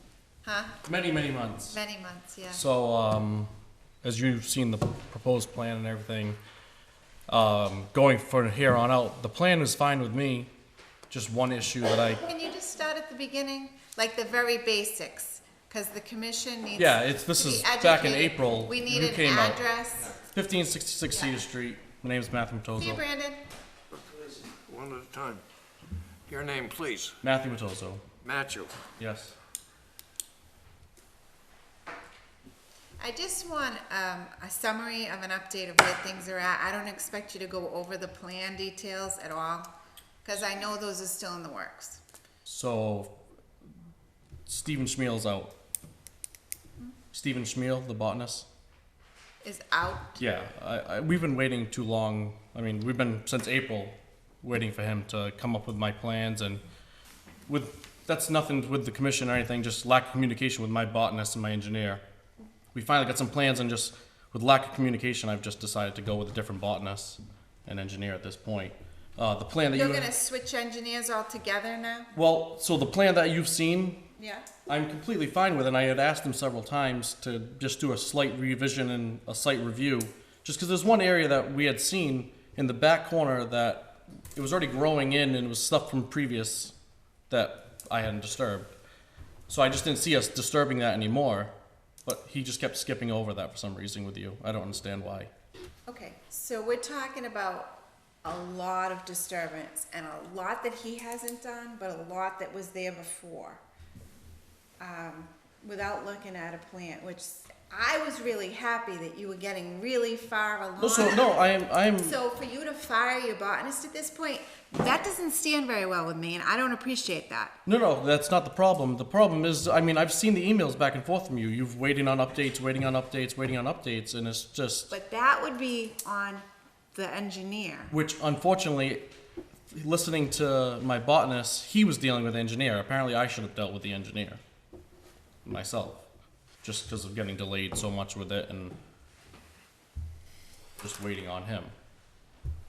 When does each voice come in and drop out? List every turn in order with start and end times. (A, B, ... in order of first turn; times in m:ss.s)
0:00.4-0:00.8 A
0:00.8-0:01.8 B
0:01.7-0:02.6 A
0:02.5-0:03.5 B
0:04.0-0:06.4 B
0:07.3-0:10.5 B
0:11.1-0:12.2 B
0:12.2-0:20.2 A
0:16.8-0:19.6 B
0:20.2-0:23.0 B
0:21.1-0:21.4 A
0:22.8-0:23.4 A
0:24.0-0:25.4 C
0:26.3-0:27.2 C
0:27.2-0:28.0 B
0:28.2-0:28.8 C
0:29.0-0:29.3 B
0:33.0-0:39.7 A
0:40.2-0:42.0 A
0:42.4-0:43.2 B
0:44.5-0:45.5 B
0:47.1-0:48.5 B
0:49.4-0:50.2 A
0:50.2-0:56.6 B
0:57.5-1:02.0 B
1:02.7-1:10.1 B
1:09.7-1:12.1 A
1:12.1-1:14.0 B
1:14.2-1:14.5 A
1:14.7-1:26.7 B
1:27.3-1:28.7 B
1:29.5-1:31.5 B
1:32.0-1:35.3 B
1:35.9-1:43.6 A
1:44.8-1:51.3 A
1:50.8-1:52.2 B
1:52.0-1:57.6 A
1:57.6-2:04.9 B
2:04.9-2:07.9 A
2:07.9-2:09.1 B
2:09.7-2:14.4 B
2:15.4-2:16.0 B
2:16.6-2:18.8 B
2:20.8-2:21.7 B